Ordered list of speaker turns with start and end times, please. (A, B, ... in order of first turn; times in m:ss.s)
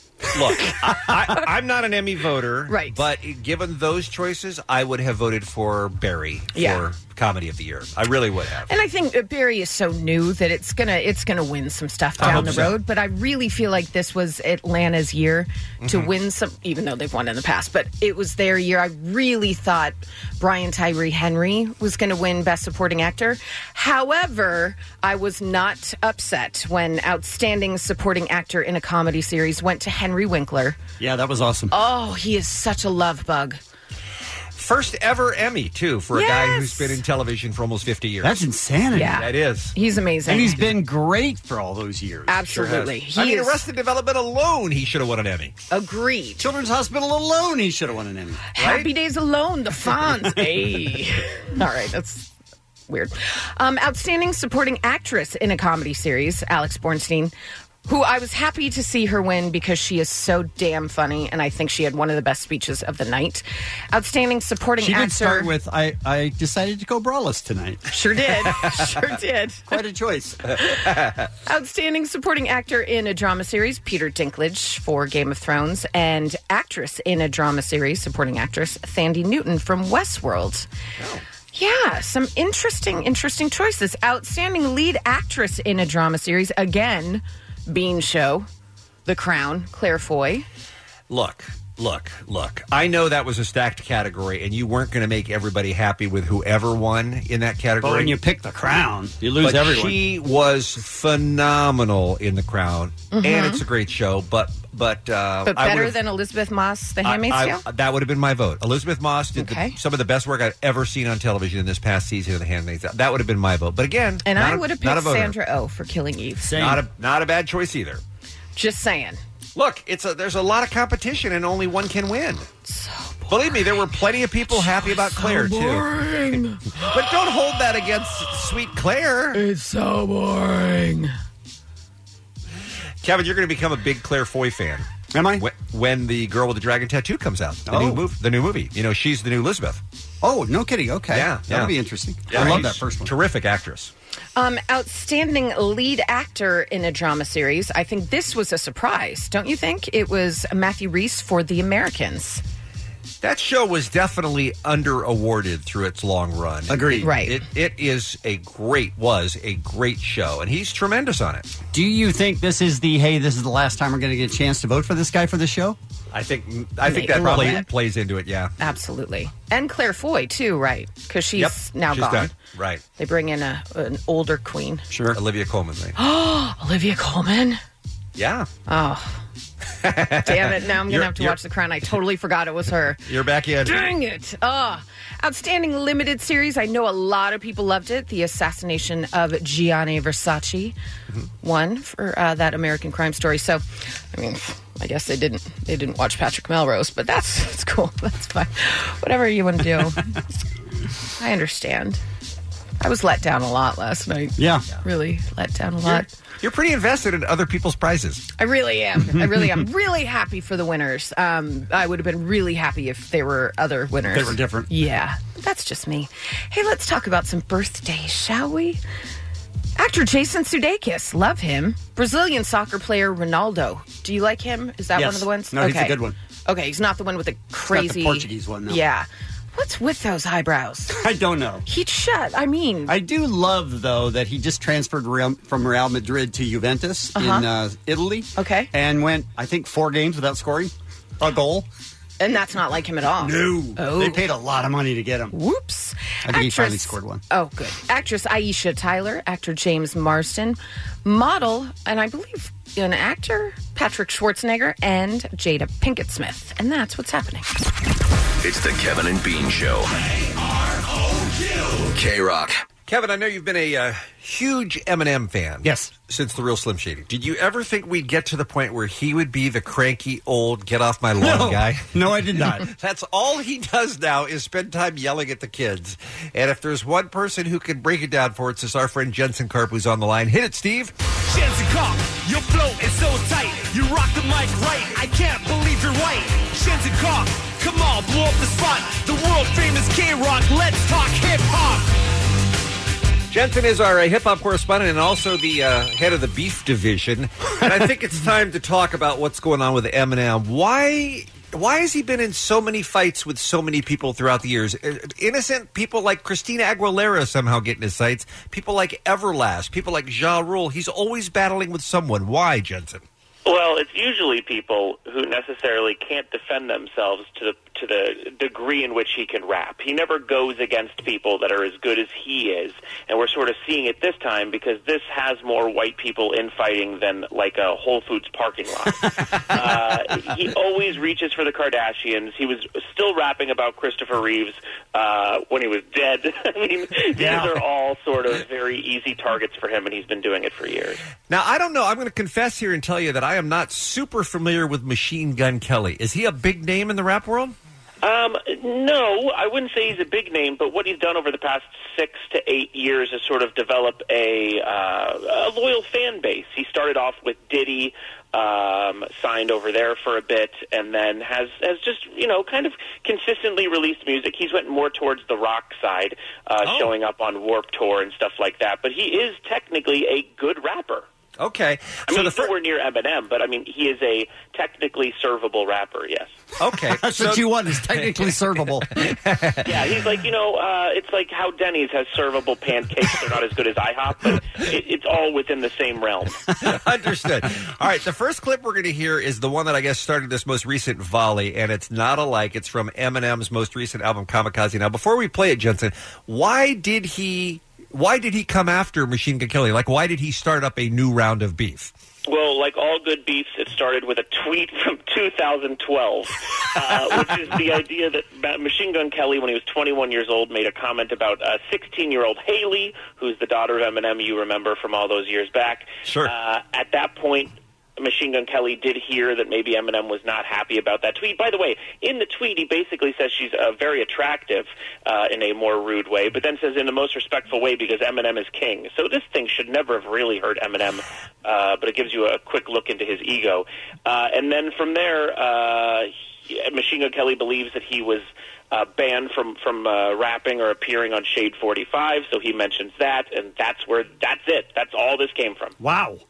0:00.3-0:08.7 A
0:00.5-0:01.4 B
0:02.7-0:03.0 B
0:06.5-0:06.8 B
0:08.7-0:30.8 B
0:12.2-0:12.7 C
0:12.2-0:12.8 A
0:15.8-0:16.1 A
0:31.0-0:31.7 C
0:31.7-0:33.6 B
0:34.5-0:38.4 A
0:36.1-0:37.0 B
0:38.2-0:39.2 C
0:38.9-0:40.6 B
0:39.1-0:39.7 A
0:40.2-0:42.7 C
0:42.3-0:43.6 B
0:42.5-0:45.6 A
0:45.7-0:46.5 B
0:46.4-0:48.5 C
0:48.5-0:52.3 B
0:48.6-0:48.9 A
0:52.9-0:57.3 B
0:57.8-1:05.5 B
1:04.8-1:07.8 C
1:07.9-1:09.7 B
1:09.7-1:10.4 C
1:11.4-1:20.7 B
1:21.0-1:21.2 A
1:21.5-1:28.5 B
1:29.0-1:30.4 B
1:31.1-1:38.2 A
1:37.8-1:40.0 C
1:39.4-1:46.0 A
1:43.1-1:43.6 B
1:45.4-1:47.6 B
1:47.0-1:55.3 A
1:49.4-1:49.8 B
1:54.2-1:56.6 B
1:56.4-1:56.9 C
1:56.5-1:58.0 A
1:58.6-1:59.2 B
1:59.5-2:02.5 A
2:02.6-2:03.6 B
2:03.3-2:05.9 A
2:04.8-2:06.6 B
2:06.8-2:09.4 A
2:09.3-2:11.1 B
2:13.0-2:19.8 A
2:15.1-2:15.4 C
2:17.6-2:18.0 C
2:20.2-2:23.1 C
2:21.1-2:21.7 A
2:22.3-2:23.9 A
2:24.4-2:32.4 B
2:33.2-2:41.5 A
2:36.7-2:37.1 C
2:37.0-2:37.4 B
2:41.7-2:45.8 C
2:46.1-2:48.5 A
2:46.8-2:47.6 B
2:47.1-2:47.6 C
2:48.6-2:52.3 B
2:51.4-2:52.8 A
2:53.0-2:54.9 B
2:54.9-2:55.2 C
2:55.1-2:55.9 A
2:56.0-2:57.6 B
2:58.2-2:58.5 A
2:58.7-2:59.2 B
2:59.8-3:01.4 A
3:00.2-3:03.0 B
3:03.0-3:03.9 A
3:03.6-3:10.8 B
3:11.4-3:20.1 B
3:21.2-3:22.0 B
3:22.8-3:26.1 B
3:24.4-3:24.6 C
3:25.8-3:28.2 A
3:28.4-3:38.8 B
3:29.0-3:29.6 C
3:34.1-3:34.7 C
3:39.8-3:51.0 B
3:44.9-3:46.2 C
3:47.7-3:48.8 C
3:50.9-3:51.6 C
3:51.6-3:53.0 B
3:52.9-4:01.7 C
3:57.1-3:57.5 B
3:58.4-3:58.7 B
4:02.2-4:04.2 B
4:03.2-4:05.3 C
4:05.3-4:17.4 B
4:06.2-4:07.2 C
4:18.4-4:20.0 D
4:21.8-4:22.5 D
4:22.9-4:40.9 A
4:25.6-4:25.9 C
4:31.2-4:32.6 C
4:41.3-4:51.8 E
4:53.3-5:13.0 A
5:13.4-5:41.0 F
5:37.2-5:37.5 C
5:41.3-5:47.5 A
5:48.0-6:11.0 F
6:06.6-6:06.9 A
6:11.4-6:12.5 A
6:12.1-6:16.3 F
6:16.6-6:18.3 A
6:16.9-6:18.9 C
6:18.9-6:19.7 A
6:19.6-6:26.4 F
6:26.6-6:41.9 A
6:42.3-7:25.8 F
6:56.0-6:56.3 A
7:25.8-7:26.2 C